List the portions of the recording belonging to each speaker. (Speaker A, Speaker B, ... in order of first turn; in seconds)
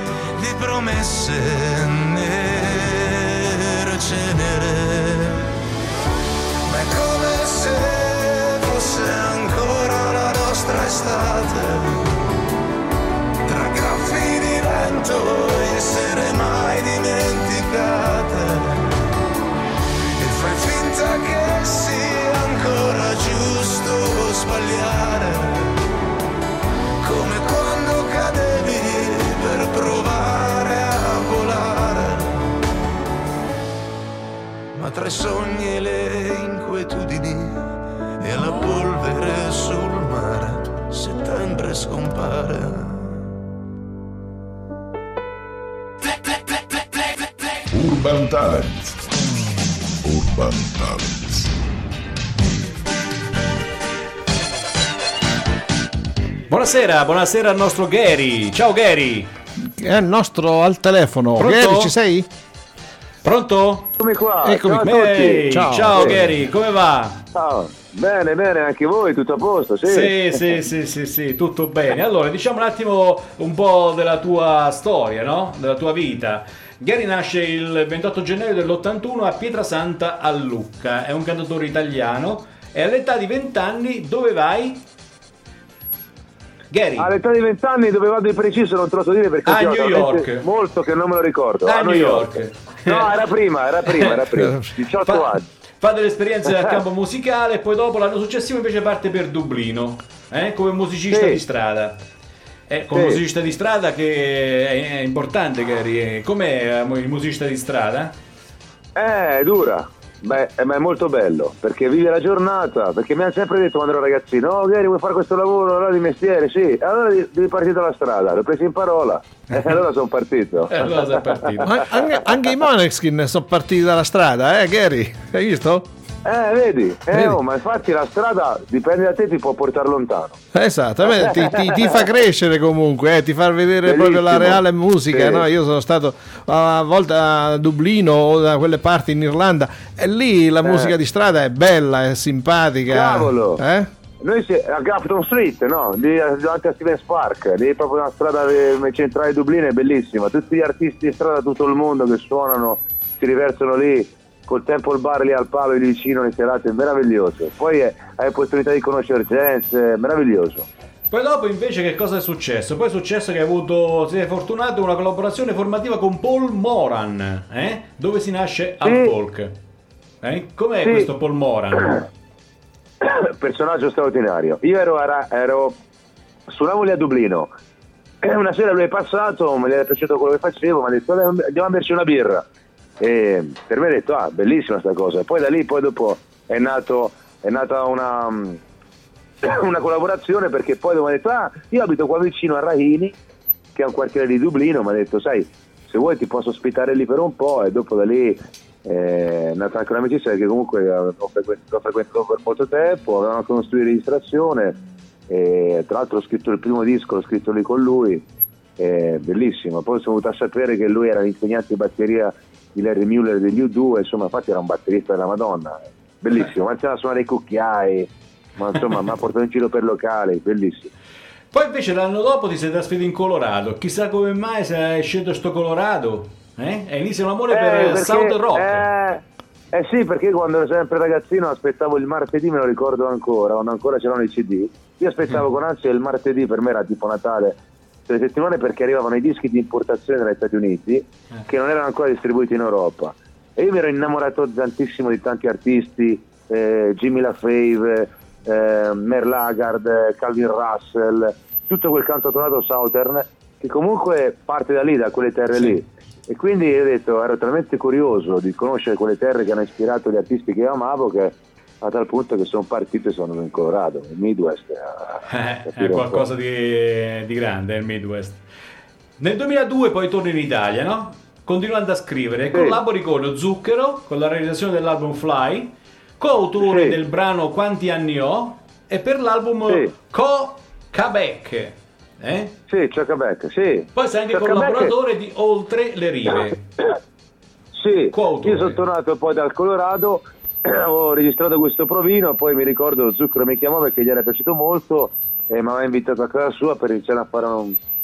Speaker A: 0.4-5.5, 6.6-12.3, 13.4-19.0, 20.2-25.8, 27.0-32.5, 34.7-37.7, 38.2-43.3
Speaker B: 47.7-49.0, 50.0-51.5
Speaker C: 56.5-59.3, 61.4-61.9, 63.2-64.0, 64.6-67.2, 69.9-84.8, 86.7-87.1, 89.5-90.5, 91.6-93.3, 93.8-94.4, 95.0-102.0, 102.7-108.1, 120.7-121.8, 161.1-169.5, 170.2-172.1, 221.5-228.9, 265.3-268.4, 269.2-282.5, 283.9-286.6, 288.1-288.8
Speaker D: 59.6-62.3, 64.4-64.9, 65.5-66.4, 121.6-125.9, 127.1-127.4, 130.5-143.9
Speaker E: 64.0-66.2, 67.3-70.4, 87.0-95.5, 101.1-101.4, 102.9-103.2, 108.9-121.7, 126.2-130.4, 131.2-131.9, 133.8-135.4, 140.6-140.9, 142.9-143.6, 144.2-160.7, 168.8-169.1, 170.8-171.1, 173.0-175.8, 176.5-177.5, 178.2-182.5, 183.0-188.6, 189.4-193.2, 193.7-208.2, 208.8-220.9, 227.5-266.2, 272.5-272.8, 276.6-277.0, 282.7-284.9, 287.7-297.8